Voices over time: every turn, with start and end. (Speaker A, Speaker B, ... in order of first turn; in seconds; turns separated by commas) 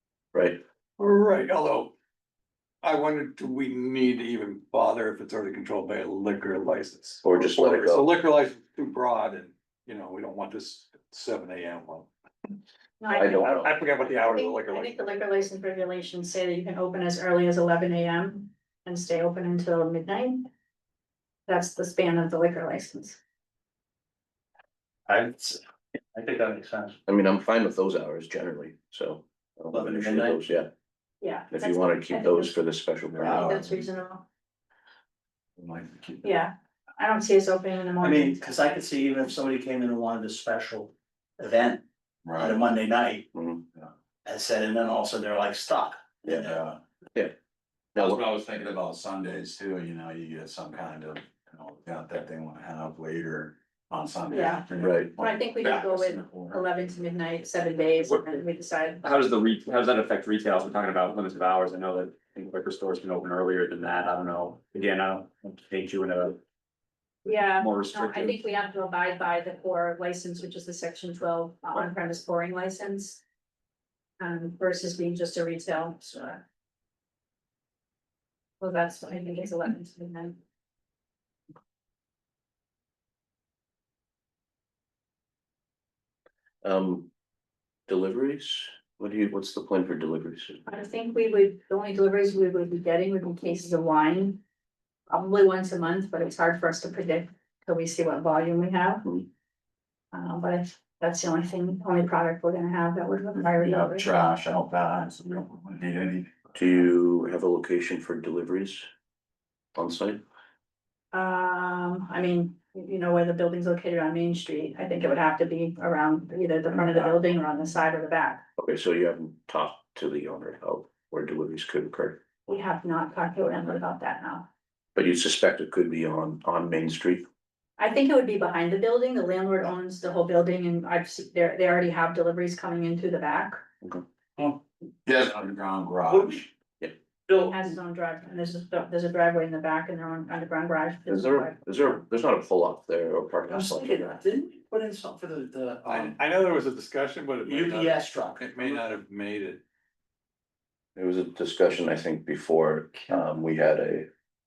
Speaker A: 0.3-0.6, Speaker B: 1.0-1.9, Speaker B: 2.8-12.1, Speaker A: 7.2-8.1, Speaker C: 13.0-20.5, Speaker A: 13.1-13.8, Speaker B: 13.2-15.1, Speaker C: 21.5-23.2, Speaker D: 25.1-25.6, Speaker D: 26.1-27.0, Speaker A: 27.1-30.7, Speaker D: 29.7-30.4, Speaker C: 31.2-32.5, Speaker A: 31.5-33.5, Speaker E: 33.1-33.8, Speaker C: 33.2-34.2, Speaker E: 35.6-36.2, Speaker C: 36.2-38.4, Speaker D: 38.0-41.8, Speaker E: 42.2-42.6, Speaker D: 42.4-43.3, Speaker A: 43.3-43.6, Speaker D: 44.2-46.6, Speaker E: 46.4-46.8, Speaker A: 47.9-48.2, Speaker E: 48.0-56.6, Speaker C: 54.3-54.6, Speaker A: 54.8-55.1, Speaker C: 55.2-59.0, Speaker F: 59.0-66.4, Speaker C: 67.2-73.2, Speaker F: 67.6-68.3, Speaker C: 74.2-76.4, Speaker C: 78.6-80.4, Speaker A: 86.6-87.1, Speaker A: 87.9-90.6, Speaker C: 90.7-94.4, Speaker C: 95.1-99.0, Speaker C: 100.1-104.1, Speaker E: 103.6-106.5, Speaker A: 106.5-108.9, Speaker A: 109.8-110.2, Speaker C: 111.1-118.4, Speaker A: 118.6-122.2, Speaker C: 122.5-124.5, Speaker A: 124.9-127.2, Speaker C: 127.8-133.6, Speaker E: 135.1-136.4, Speaker D: 136.1-136.4, Speaker D: 137.3-137.7, Speaker C: 137.3-142.0, Speaker A: 141.1-144.0, Speaker D: 143.5-146.2, Speaker B: 145.8-149.6, Speaker D: 147.4-148.8, Speaker A: 150.9-154.1